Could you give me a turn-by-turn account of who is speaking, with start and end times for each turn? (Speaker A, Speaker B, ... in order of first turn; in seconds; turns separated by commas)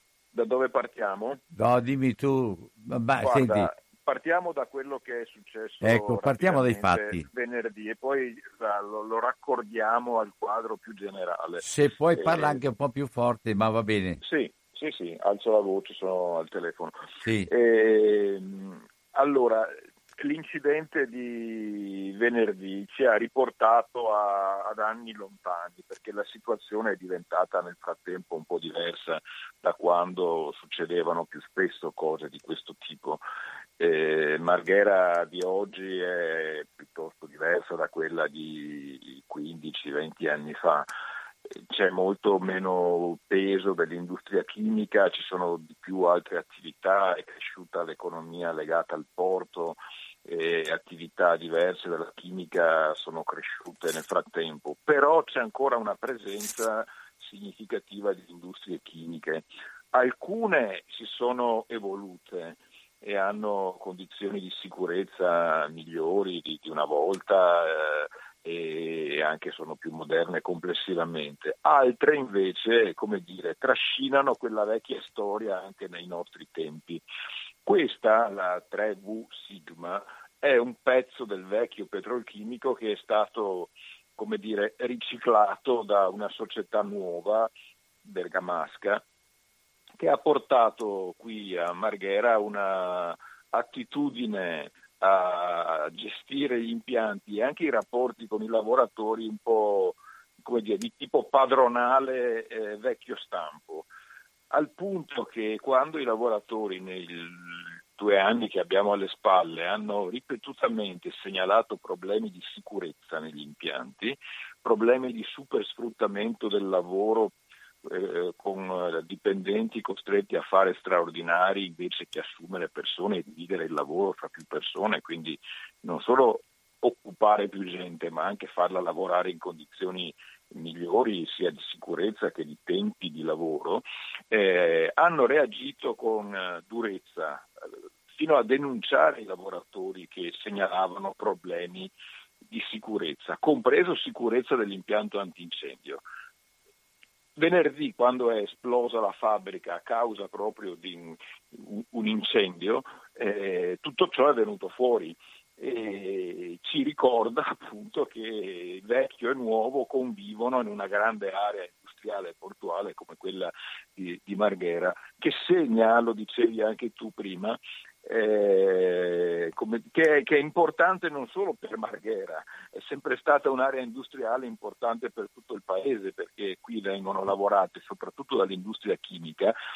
Speaker A: 0.3-1.4, Speaker B: 1.5-3.7, Speaker A: 3.2-11.6, Speaker B: 5.8-7.2, Speaker B: 11.6-14.2, Speaker A: 12.1-12.6, Speaker A: 14.2-33.2, Speaker B: 17.2-17.5, Speaker A: 33.8-40.9, Speaker A: 41.5-77.0, Speaker A: 77.6-87.5, Speaker A: 88.0-89.0, Speaker A: 90.0-103.9, Speaker A: 104.5-117.3, Speaker A: 117.8-137.5, Speaker A: 138.1-141.9, Speaker A: 142.5-146.0, Speaker A: 147.3-179.5